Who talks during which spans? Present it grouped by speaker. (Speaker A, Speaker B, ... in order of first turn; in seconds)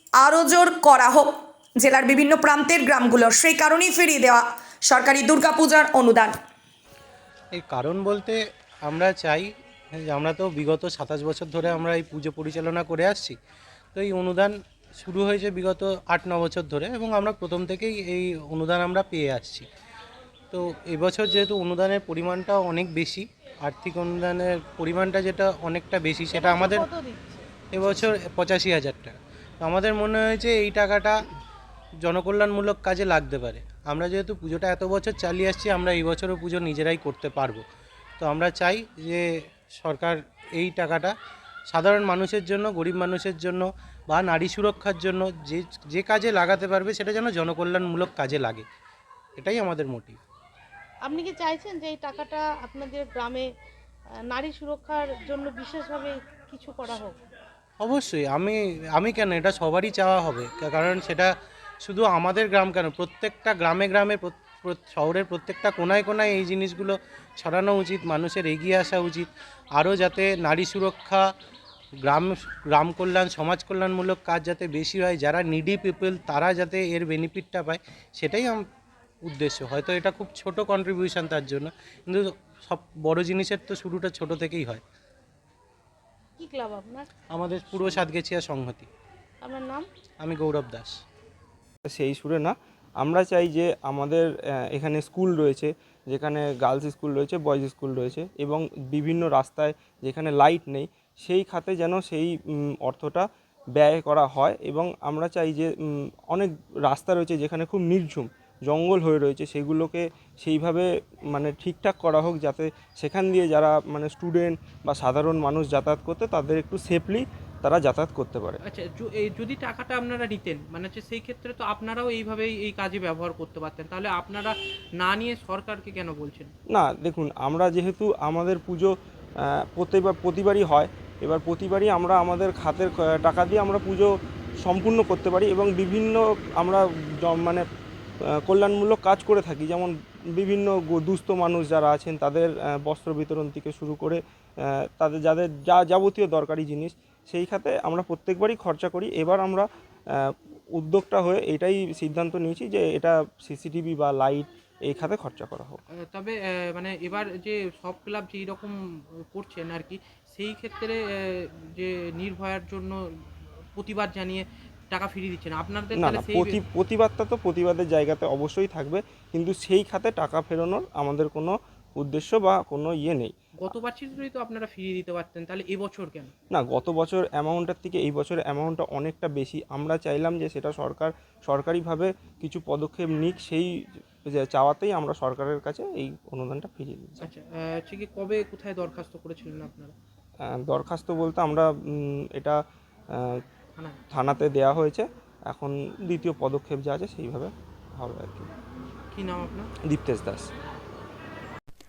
Speaker A: 0.2-6.3
Speaker B: 7.5-9.5, 10.0-13.4, 13.9-19.7, 20.5-26.9, 27.7-31.3, 32.0-37.6, 38.2-39.2, 39.8-41.1, 41.7-48.6, 49.4-50.2, 57.8-61.3, 61.8-71.2, 72.0-78.6, 79.2-84.8, 87.3-88.9, 90.2-90.9
Speaker C: 26.3-27.5, 51.1-53.5, 54.3-57.2, 86.4-87.1, 89.4-89.9
Speaker D: 91.9-118.6, 126.7-137.7, 138.3-155.8, 165.9-173.3, 176.5-187.2, 190.4-192.6, 193.1-193.4, 194.1-198.5, 199.9-200.5
Speaker E: 118.7-126.5, 156.1-158.8, 159.3-163.0, 163.8-166.6, 173.6-176.3, 187.2-189.9, 199.1-199.7